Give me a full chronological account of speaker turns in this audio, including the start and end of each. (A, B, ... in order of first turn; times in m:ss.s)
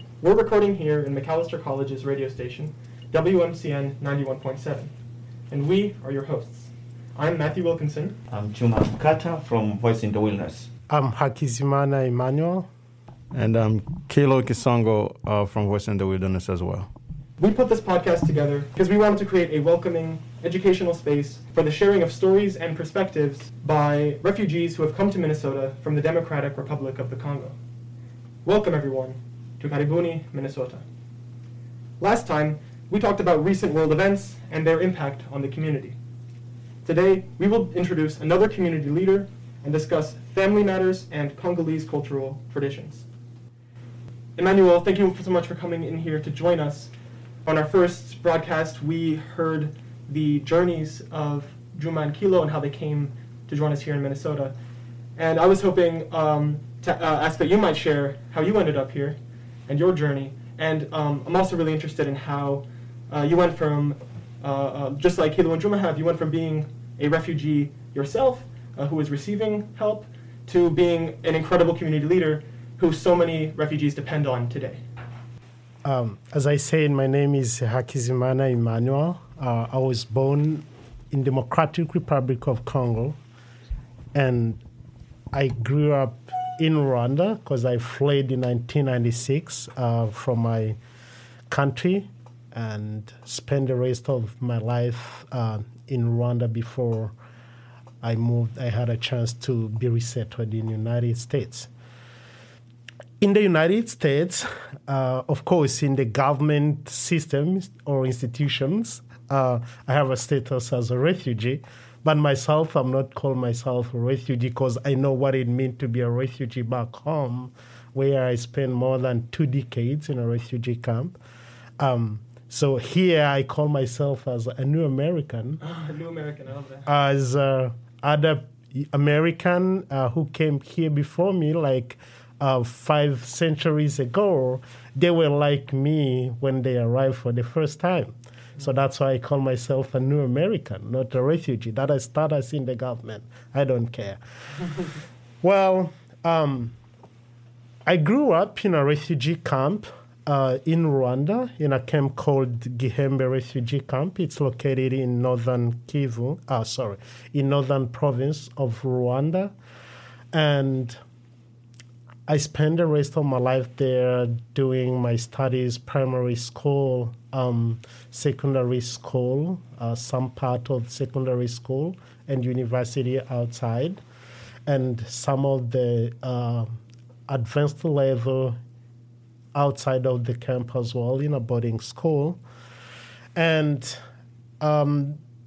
0:00.2-0:04.9 A
0:05.5-0:08.2 A
0:08.3-0:10.7 B
0:10.9-0:12.7 C
0:13.3-0:16.9 D
0:17.4-0:27.6 A
0:28.4-0:30.8 A
0:32.0-0:36.0 A
0:36.8-0:43.0 A
0:44.4-0:46.9 A
0:47.4-0:54.6 A
0:55.2-1:14.8 A
1:15.8-1:23.2 C
1:24.1-1:24.6 C
1:25.3-1:30.8 C
1:31.5-1:37.1 C
1:38.0-1:41.7 C
1:43.2-2:01.2 C
2:01.8-2:05.6 C
2:05.6-2:06.9 A
2:06.9-2:26.8 C
2:27.9-2:39.5 C
2:40.3-2:41.0 C
2:42.3-2:54.0 C
2:54.7-2:56.7 C
2:57.3-2:58.6 C
2:59.5-3:02.4 C
3:03.4-3:04.0 C
3:04.6-3:05.2 C